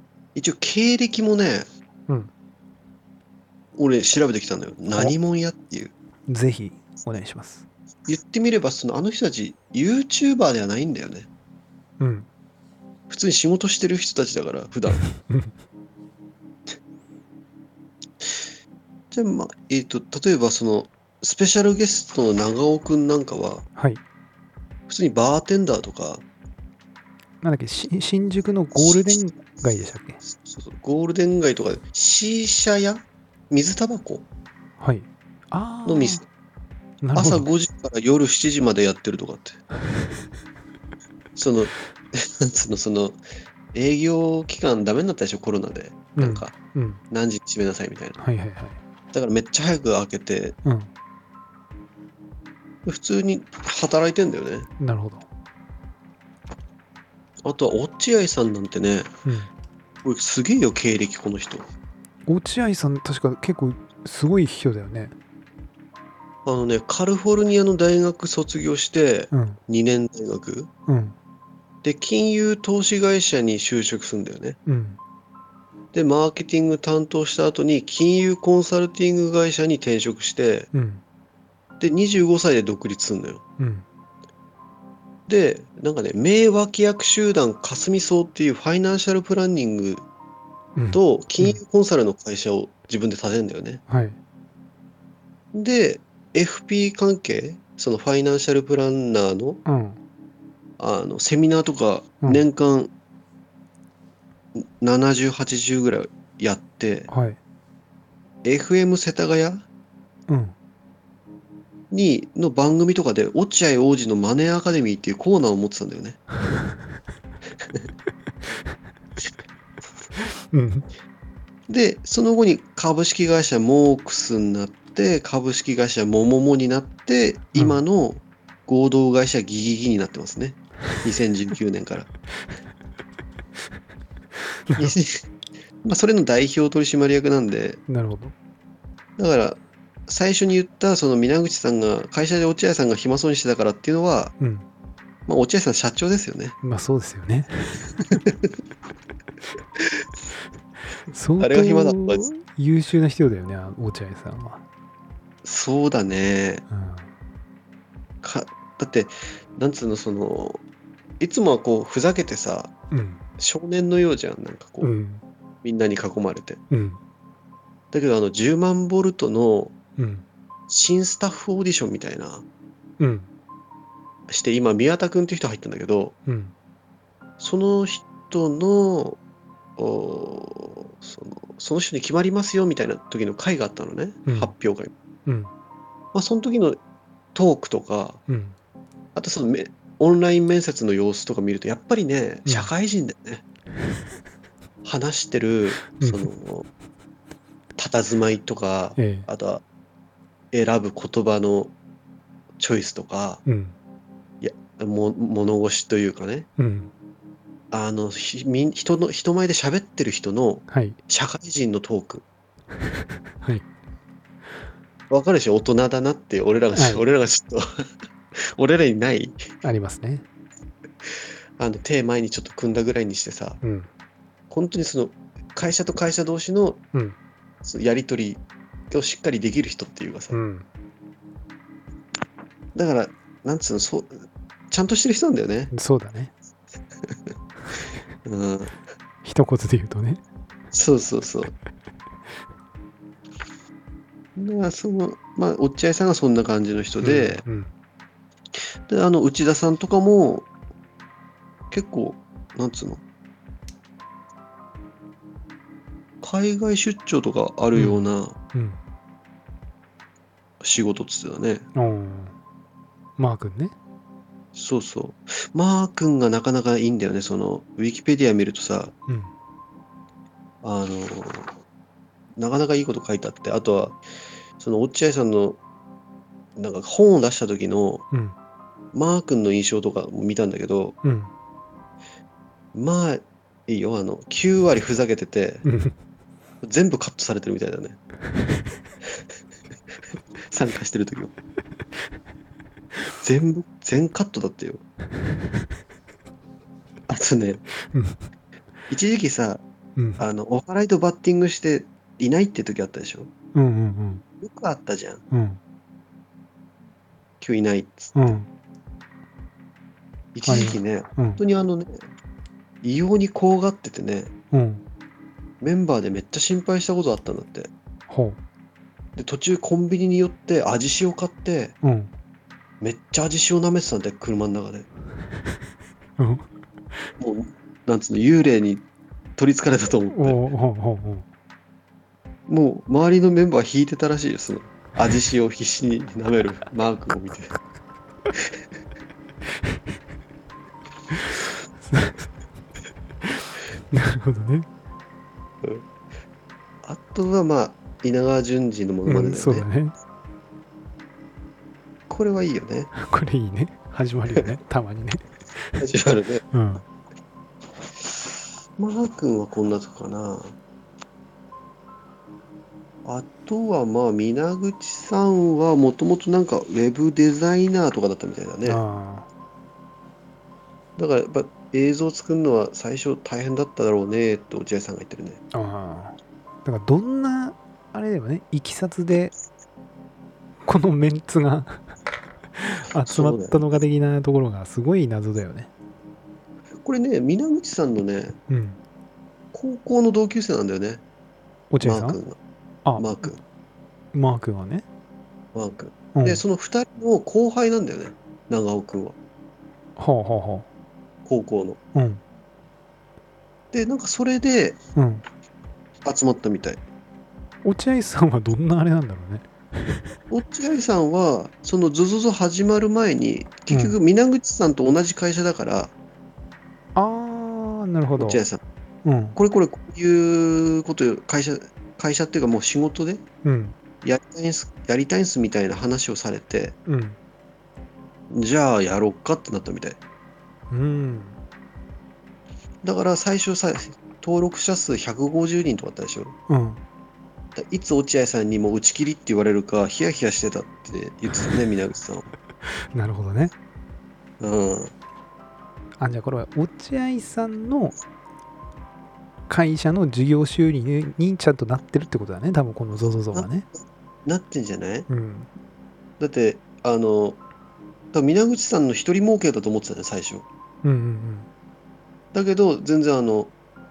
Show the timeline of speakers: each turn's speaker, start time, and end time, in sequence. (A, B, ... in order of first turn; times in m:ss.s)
0:00.4-0:01.7 A
0:03.8-0:05.9 A
0:06.3-0:07.7 B
0:08.1-0:11.3 A
0:12.0-0:12.3 B
0:13.1-0:15.0 A
0:15.0-0:15.5 B
0:19.1-0:23.6 A
0:23.8-0:24.0 B
0:24.9-0:26.2 A
0:27.4-0:30.2 B
0:30.3-0:34.3 A
0:34.8-0:36.2 B
0:35.8-0:36.2 A
0:37.0-0:37.5 B
0:37.1-0:39.6 A
0:41.4-0:43.2 A
0:43.7-0:46.6 A
0:46.2-0:47.0 B
0:47.1-0:48.2 A
0:48.2-0:48.8 B
0:49.1-0:50.6 A
0:50.6-0:50.9 B
0:52.8-0:54.7 A
0:54.8-0:55.2 B
0:57.4-0:59.1 A
0:59.2-0:59.5 B
1:00.0-1:01.7 A
1:02.3-1:05.1 B
1:06.5-1:10.7 A
1:09.3-1:09.6 B
1:10.9-1:11.2 B
1:11.8-1:14.6 A
1:14.7-1:15.0 B
1:15.9-1:20.7 A
1:20.7-1:21.0 B
1:21.8-1:23.4 A
1:23.6-1:23.8 B
1:25.3-1:30.0 A
1:30.8-1:31.6 B
1:30.9-1:33.8 A
1:33.9-1:34.2 B
1:35.5-1:39.6 A
1:39.7-1:40.0 B
1:40.8-1:42.9 A
1:44.6-1:47.1 A
1:47.1-1:47.4 B
1:48.4-1:49.6 A
1:50.3-1:50.5 B
1:51.9-1:56.2 A
2:00.5-2:00.9 B
2:01.7-2:12.1 A
2:07.6-2:07.8 B
2:14.7-2:15.0 B
2:14.8-2:15.2 A
2:15.8-2:17.8 A
2:17.9-2:18.3 B
2:19.2-2:24.3 A
2:24.4-2:24.7 B
2:25.3-2:26.5 A
2:26.6-2:28.2 B
2:31.1-2:34.6 B
2:31.4-2:32.2 A
2:35.4-2:36.6 A
2:36.7-2:37.1 B
2:38.2-2:40.6 A
2:41.2-2:42.7 A
2:42.9-2:43.2 B
2:43.4-2:44.9 A
2:44.8-2:45.2 B
2:45.6-2:46.6 A
2:46.7-2:47.0 B
2:47.9-2:49.8 A
2:50.0-2:50.2 B
2:50.7-2:52.4 A
2:53.0-2:53.3 B
2:54.3-2:56.1 A
2:56.2-2:56.5 B
2:57.4-2:59.2 A
2:59.8-3:04.9 A
3:04.2-3:04.5 B
3:06.1-3:06.8 A
3:07.3-3:08.2 A
3:08.3-3:08.5 B
3:09.2-3:13.4 A
3:12.4-3:12.7 B
3:14.8-3:16.7 A
3:16.0-3:16.3 B
3:17.8-3:19.6 A
3:19.0-3:19.3 B
3:20.5-3:21.7 A
3:22.6-3:23.4 A
3:23.4-3:23.8 B
3:24.4-3:26.5 A
3:26.6-3:26.9 B
3:27.7-3:32.2 A
3:30.7-3:31.0 B
3:35.1-3:37.6 A
3:36.7-3:37.0 B
3:38.5-3:39.5 A
3:39.6-3:40.2 B
3:41.6-3:43.6 A
3:43.6-3:43.9 B
3:44.5-3:46.8 A
3:47.6-3:50.4 A
3:50.3-3:50.7 B
3:52.8-3:54.2 A
3:54.7-3:55.7 A
3:55.7-3:56.3 B
3:58.2-3:58.8 A
3:59.2-4:00.2 B
4:00.7-4:01.5 A
4:04.4-4:07.4 A
4:07.0-4:07.7 B
4:08.9-4:10.5 A
4:11.7-4:13.0 A
4:16.2-4:18.4 A
4:17.7-4:18.8 B
4:20.6-4:21.6 A
4:21.8-4:22.4 B
4:23.2-4:23.7 B
4:24.6-4:28.9 A
4:29.1-4:29.3 B
4:30.6-4:31.6 A
4:32.4-4:34.0 A
4:34.6-4:35.6 A
4:36.6-4:38.1 A
4:38.9-4:40.9 A
4:41.0-4:41.3 B
4:42.7-4:45.7 A
4:45.6-4:46.0 B
4:46.6-4:48.0 A
4:50.5-4:51.4 A
4:53.2-4:54.8 A
4:57.1-4:57.6 A
4:57.9-4:58.2 B
4:58.9-4:59.6 A
5:00.0-5:00.2 B
5:00.2-5:03.3 A
5:03.6-5:04.2 B
5:04.4-5:05.2 A
5:05.3-5:05.6 B
5:07.4-5:08.3 A
5:08.2-5:08.5 B
5:10.4-5:12.1 A
5:10.5-5:11.4 B
5:12.8-5:14.3 A
5:14.5-5:14.8 B
5:15.6-5:17.7 A
5:18.1-5:18.4 B
5:19.2-5:21.8 A
5:21.8-5:22.1 B
5:22.8-5:24.9 A
5:26.2-5:26.5 B
5:27.2-5:28.8 A
5:29.4-5:30.4 A
5:30.1-5:31.2 B
5:32.5-5:37.6 A
5:41.1-5:42.3 B
5:43.2-5:44.7 B
5:46.8-5:49.7 A
5:49.1-5:49.9 B
5:52.1-5:52.9 A
5:53.0-5:55.8 B
5:55.8-5:56.4 A
5:56.5-5:56.8 B
5:58.8-6:00.5 A
6:03.0-6:08.8 A
6:08.6-6:09.3 B
6:11.0-6:15.4 A
6:15.5-6:19.3 B
6:20.6-6:21.9 B
6:22.6-6:25.7 B
6:23.1-6:23.7 A
6:26.8-6:28.4 A
6:28.5-6:28.8 B
6:29.5-6:31.0 A
6:31.7-6:32.2 B
6:31.8-6:32.4 A
6:32.8-6:33.2 B
6:33.0-6:33.4 A
6:34.1-6:34.8 B
6:35.6-6:39.2 A
6:36.1-6:36.4 B
6:40.0-6:40.7 B
6:41.2-6:41.8 A
6:41.9-6:42.2 B
6:43.7-6:44.8 A
6:44.9-6:45.2 B
6:46.0-6:46.8 A
6:47.6-6:50.2 B
6:50.3-6:55.9 A
6:53.7-6:54.0 B
6:56.9-6:58.4 B
6:58.2-6:58.6 A
6:59.0-6:59.4 B
6:59.4-7:03.2 A
7:03.4-7:03.8 B
7:04.0-7:06.8 A
7:06.9-7:07.2 B
7:08.3-7:10.0 A
7:10.7-7:11.4 B
7:12.8-7:16.4 A
7:16.5-7:16.8 B
7:17.6-7:22.3 A
7:22.9-7:23.5 B
7:24.4-7:24.9 A
7:26.0-7:27.9 B
7:29.5-7:33.7 B
7:33.3-7:35.1 A
7:35.1-7:35.5 B
7:36.2-7:37.4 A
7:38.1-7:40.5 A
7:40.8-7:41.5 B
7:42.3-7:43.5 A